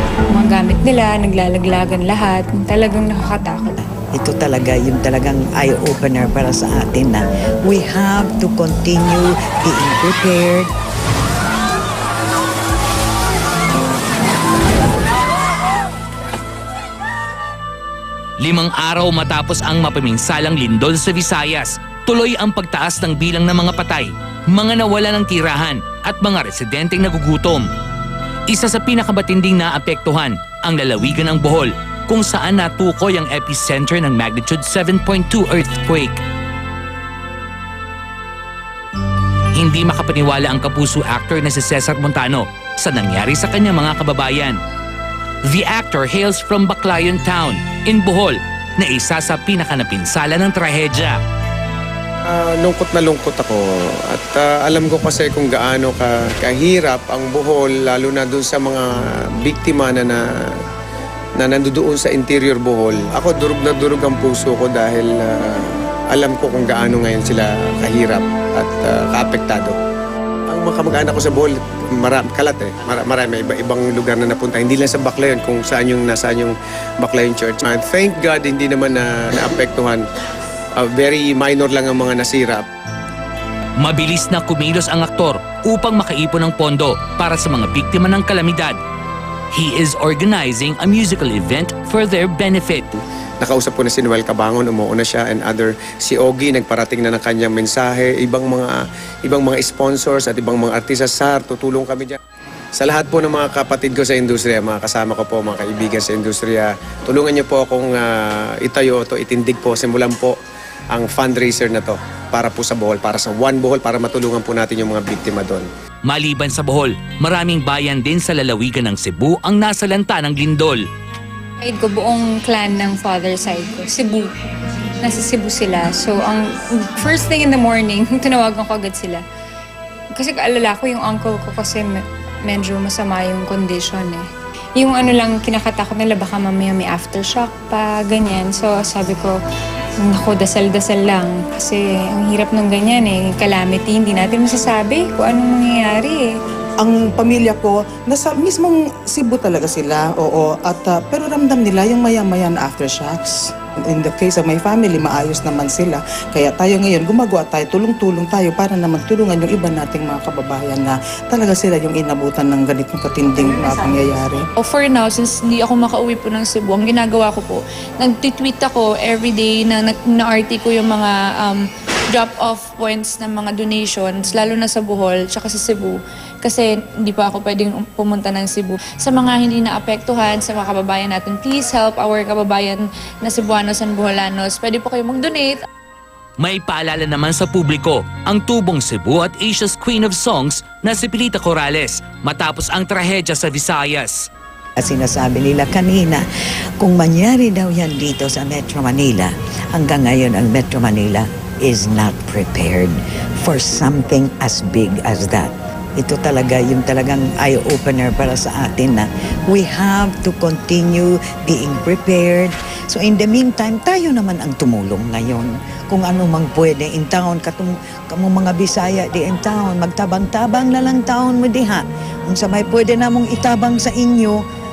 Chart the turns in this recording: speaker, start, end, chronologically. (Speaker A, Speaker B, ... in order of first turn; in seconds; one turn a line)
Speaker A: 0.3-3.8
Speaker B: 4.2-10.7
Speaker C: 18.4-27.7
Speaker C: 28.5-36.2
Speaker C: 39.6-44.6
Speaker C: 45.5-51.2
Speaker D: 52.3-58.9
Speaker D: 59.4-60.2
Speaker D: 61.4-69.8
Speaker D: 70.5-80.0
Speaker D: 80.8-82.7
Speaker C: 83.8-88.8
Speaker C: 89.5-92.9
Speaker D: 93.4-102.2
Speaker D: 102.8-110.4
Speaker D: 110.9-115.7
Speaker C: 116.1-120.8
Speaker A: 121.6-124.3
Speaker A: 125.0-129.2
Speaker A: 130.2-139.4
Speaker A: 140.0-146.3
Speaker E: 146.8-164.5
Speaker F: 164.6-185.6
Speaker C: 186.4-194.3
Speaker B: 194.8-196.2
Speaker B: 196.8-224.4